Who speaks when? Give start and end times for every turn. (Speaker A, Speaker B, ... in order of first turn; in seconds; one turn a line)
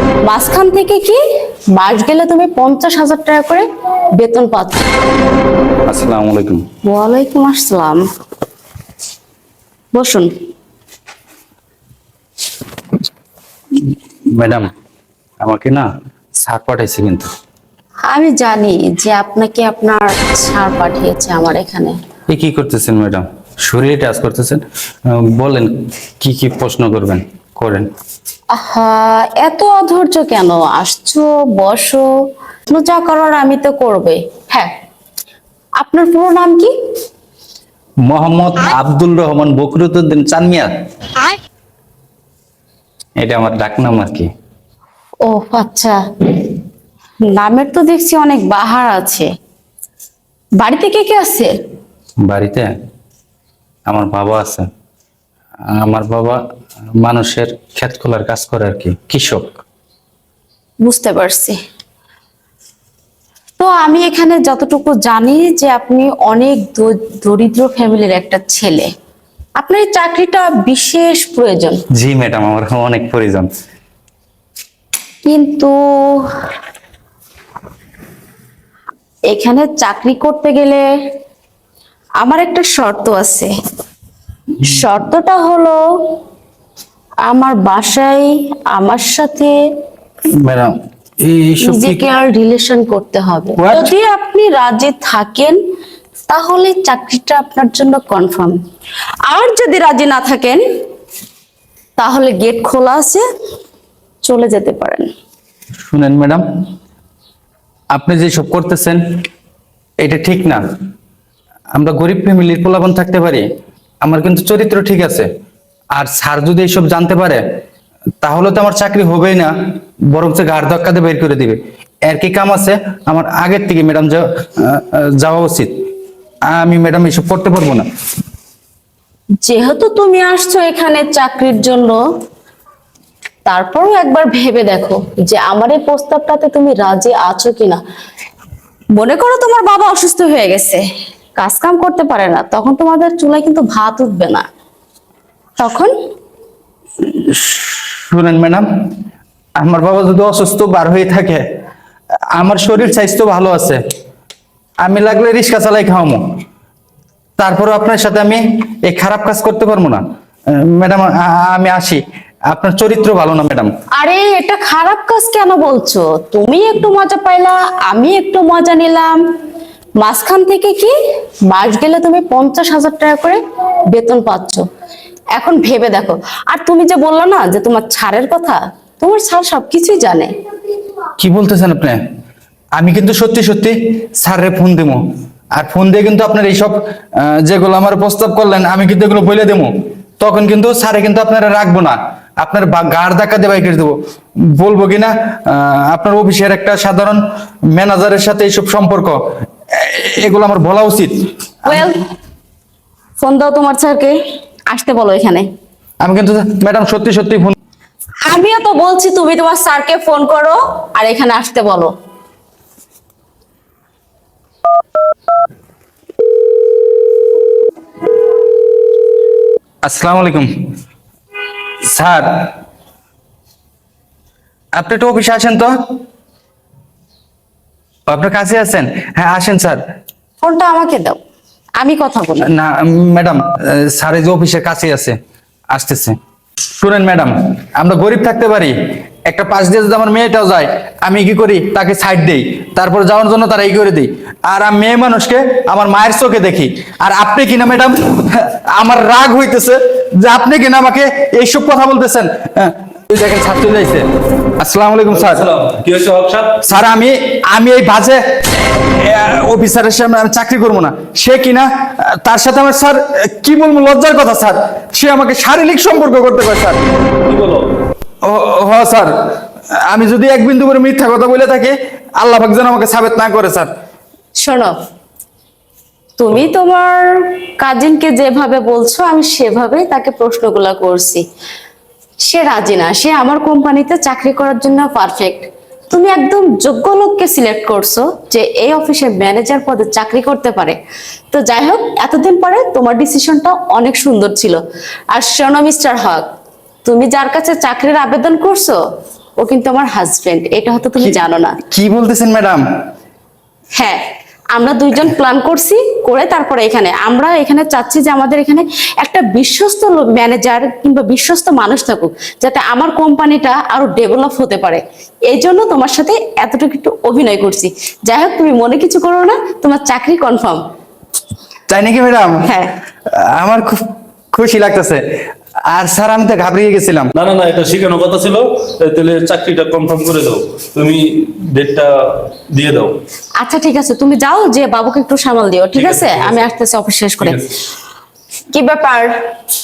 Speaker A: 0.3-1.2
Speaker A: 1.7-3.7
Speaker A: 4.2-4.9
Speaker B: 5.9-6.7
Speaker A: 6.9-8.0
Speaker A: 9.9-10.3
Speaker B: 13.8-14.7
Speaker B: 15.4-15.9
Speaker B: 16.4-17.3
Speaker A: 18.0-22.0
Speaker B: 22.3-27.9
Speaker A: 28.5-32.1
Speaker A: 32.7-34.7
Speaker A: 35.8-36.7
Speaker B: 38.0-40.7
Speaker B: 43.2-44.3
Speaker A: 45.2-46.5
Speaker A: 47.3-49.3
Speaker A: 50.6-51.5
Speaker B: 52.3-52.7
Speaker B: 53.9-54.7
Speaker B: 55.8-56.4
Speaker B: 57.0-59.5
Speaker A: 60.8-61.6
Speaker A: 63.6-68.9
Speaker A: 69.6-71.8
Speaker B: 72.0-73.5
Speaker A: 75.3-76.3
Speaker A: 79.3-80.8
Speaker A: 82.2-83.5
Speaker A: 84.6-85.8
Speaker A: 87.3-89.6
Speaker B: 90.4-90.7
Speaker B: 91.2-92.0
Speaker A: 91.6-95.6
Speaker B: 93.6-93.9
Speaker A: 96.3-98.6
Speaker A: 99.3-100.6
Speaker A: 102.0-103.2
Speaker A: 104.2-105.1
Speaker B: 105.9-106.4
Speaker B: 107.9-109.0
Speaker B: 110.0-110.6
Speaker B: 111.8-113.5
Speaker B: 114.0-115.3
Speaker B: 116.0-117.4
Speaker B: 118.2-119.5
Speaker B: 120.1-125.8
Speaker B: 126.5-127.9
Speaker A: 129.4-132.0
Speaker A: 133.5-137.8
Speaker A: 139.0-140.8
Speaker A: 141.4-144.5
Speaker A: 145.6-145.9
Speaker B: 147.0-148.7
Speaker B: 149.6-151.4
Speaker B: 152.4-153.8
Speaker B: 154.8-156.2
Speaker B: 157.4-160.0
Speaker B: 160.7-163.7
Speaker A: 164.0-169.2
Speaker A: 170.0-170.9
Speaker A: 171.5-173.4
Speaker A: 173.9-174.6
Speaker A: 175.4-180.3
Speaker B: 181.2-182.0
Speaker B: 182.8-185.0
Speaker B: 185.6-194.0
Speaker B: 194.6-197.2
Speaker B: 197.7-199.2
Speaker B: 199.7-201.1
Speaker A: 201.7-202.1
Speaker A: 203.2-204.2
Speaker A: 204.7-205.5
Speaker B: 206.0-207.6
Speaker A: 208.2-211.9
Speaker B: 219.8-220.5
Speaker B: 221.9-222.5
Speaker B: 224.8-225.7
Speaker B: 228.1-229.8
Speaker A: 230.4-231.2
Speaker A: 231.8-232.5
Speaker B: 232.5-235.2
Speaker B: 235.7-236.2
Speaker B: 236.8-238.8
Speaker B: 239.3-254.1
Speaker B: 254.6-255.4
Speaker C: 255.1-256.7
Speaker B: 256.6-266.8
Speaker C: 267.2-267.7
Speaker B: 268.2-269.1
Speaker B: 269.7-273.7
Speaker A: 274.4-274.7
Speaker A: 276.2-281.2
Speaker A: 282.2-290.8
Speaker A: 291.3-294.6
Speaker A: 295.1-296.2
Speaker A: 296.9-298.8
Speaker A: 299.4-301.6
Speaker B: 301.0-302.6
Speaker A: 304.5-320.6
Speaker B: 321.7-322.5
Speaker A: 322.4-322.7
Speaker B: 323.1-325.0
Speaker B: 325.7-327.1
Speaker C: 327.2-333.0
Speaker A: 333.4-337.5
Speaker C: 335.8-336.4
Speaker A: 338.5-339.2